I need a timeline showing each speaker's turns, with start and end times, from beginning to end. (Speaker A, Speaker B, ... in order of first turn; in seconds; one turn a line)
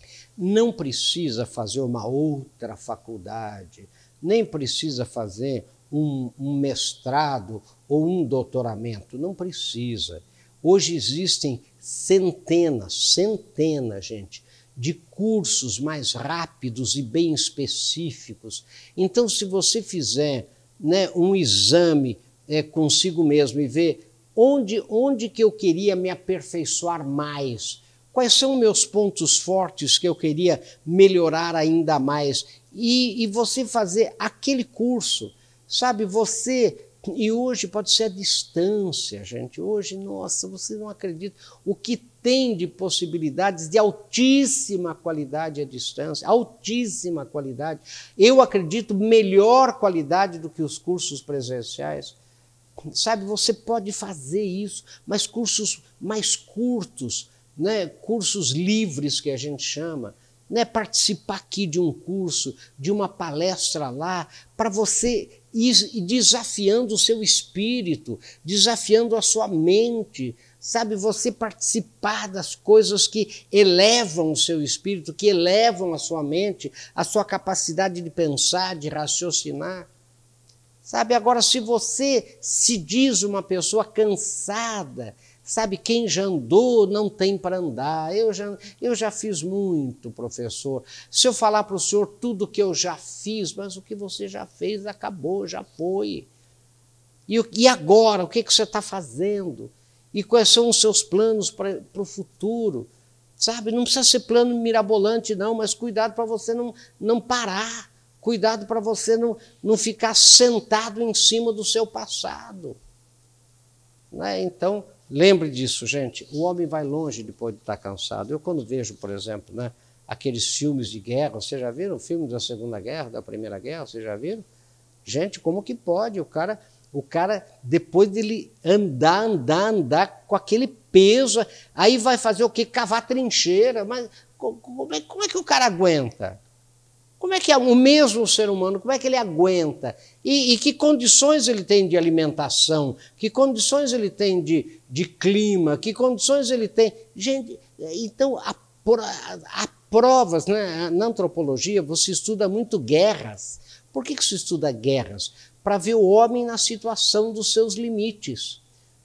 Speaker A: 0.4-52.1
Speaker A: 52.9-79.9
Speaker A: 80.8-96.3
Speaker A: 97.3-112.8
Speaker A: 114.1-124.4
Speaker A: 125.0-136.4
Speaker A: 137.2-158.6